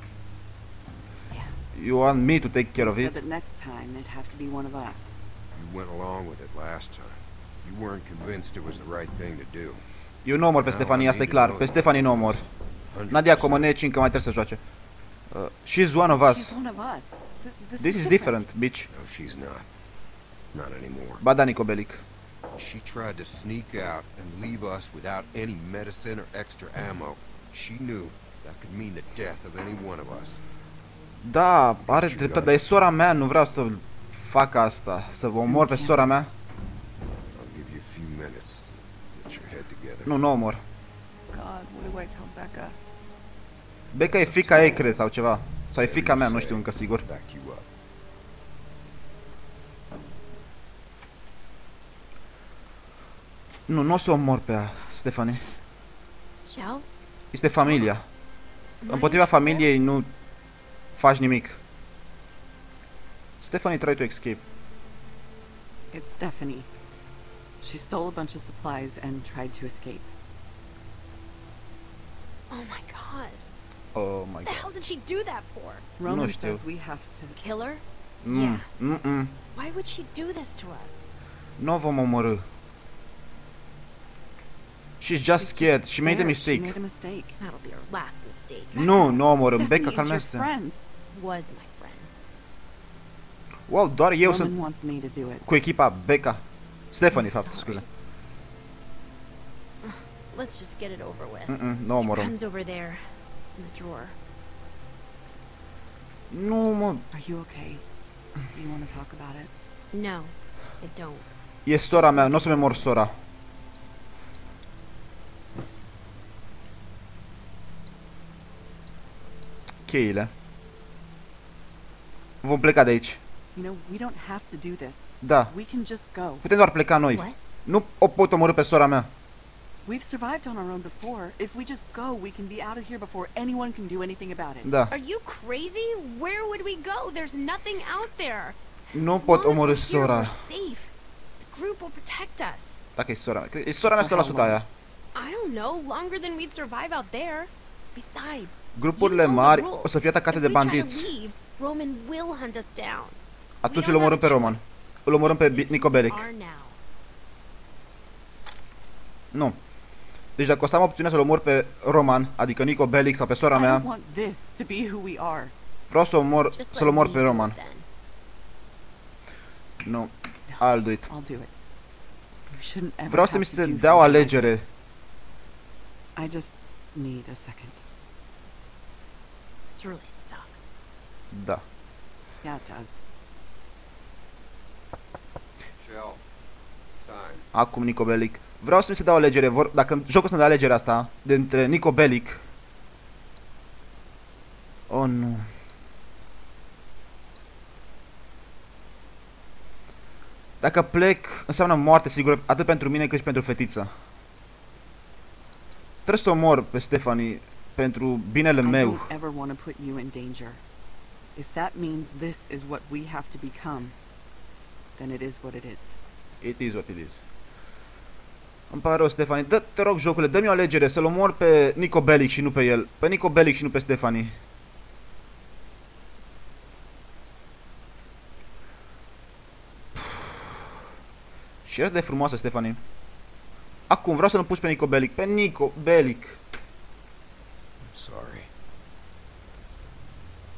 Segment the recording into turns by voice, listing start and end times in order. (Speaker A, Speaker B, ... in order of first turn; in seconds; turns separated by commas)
Speaker A: 1.7-3.2, Speaker B: 2.8-5.2, Speaker C: 5.5-9.8, Speaker A: 10.2-12.4, Speaker C: 10.6-13.7, Speaker A: 13.1-14.6, Speaker A: 15.3-16.6, Speaker B: 16.1-18.4, Speaker A: 17.8-18.9, Speaker C: 18.9-19.7, Speaker C: 20.5-21.2, Speaker A: 21.2-22.0, Speaker C: 22.6-30.4, Speaker A: 31.2-36.3, Speaker C: 31.9-32.6, Speaker B: 35.4-36.2, Speaker C: 37.3-40.1, Speaker A: 40.1-40.6, Speaker B: 41.3-42.8, Speaker A: 43.9-47.0, Speaker C: 44.1-44.9, Speaker C: 45.8-47.7, Speaker A: 53.7-55.6, Speaker D: 56.5-56.9, Speaker A: 57.3-58.0, Speaker D: 57.5-57.9, Speaker D: 58.8-59.7, Speaker A: 58.9-60.1, Speaker A: 61.0-61.6, Speaker A: 63.4-64.4, Speaker B: 65.9-66.7, Speaker B: 67.6-70.1, Speaker D: 72.5-73.4, Speaker A: 74.0-74.7, Speaker D: 74.4-75.8, Speaker B: 76.0-77.4, Speaker A: 76.0-76.6, Speaker D: 77.4-78.7, Speaker A: 78.2-79.3, Speaker D: 79.5-81.1, Speaker A: 81.6-82.4, Speaker A: 85.0-86.8, Speaker B: 85.2-87.4, Speaker D: 87.4-89.2, Speaker A: 88.8-90.5, Speaker B: 88.8-90.8, Speaker D: 91.1-92.1, Speaker A: 93.7-94.5, Speaker B: 94.2-95.5, Speaker A: 95.5-97.8, Speaker D: 97.3-97.8, Speaker D: 99.8-104.2, Speaker A: 101.5-102.3, Speaker A: 106.3-107.0, Speaker B: 107.1-107.8, Speaker B: 108.5-109.5, Speaker D: 109.9-111.3, Speaker A: 111.7-113.1, Speaker D: 111.8-112.8, Speaker A: 119.9-120.3, Speaker A: 122.4-123.2, Speaker B: 123.5-126.5, Speaker A: 125.2-125.5, Speaker A: 126.4-129.1, Speaker D: 127.1-127.4, Speaker B: 129.8-134.7, Speaker A: 134.6-134.9, Speaker D: 134.9-142.8, Speaker A: 138.9-140.4, Speaker A: 143.0-144.7, Speaker B: 143.8-144.6, Speaker D: 145.2-156.8, Speaker A: 148.8-151.1, Speaker A: 153.6-156.3, Speaker A: 159.3-159.6, Speaker A: 160.4-163.9, Speaker B: 163.5-165.5, Speaker A: 165.9-167.6, Speaker D: 166.5-167.8, Speaker A: 169.8-171.1, Speaker B: 170.5-171.5, Speaker B: 172.5-174.7, Speaker A: 173.1-174.7, Speaker B: 176.2-177.8, Speaker D: 179.7-180.7, Speaker A: 181.3-181.6, Speaker B: 182.4-183.0, Speaker C: 185.8-186.2, Speaker C: 187.0-187.5, Speaker A: 187.5-192.4, Speaker A: 194.9-195.5, Speaker A: 200.6-203.9, Speaker A: 206.1-209.1, Speaker B: 208.6-210.6, Speaker B: 211.3-213.9, Speaker B: 215.0-216.0, Speaker A: 216.4-217.2, Speaker A: 218.7-224.3, Speaker A: 230.0-230.2, Speaker A: 231.7-232.8, Speaker A: 233.9-236.4, Speaker C: 237.8-238.5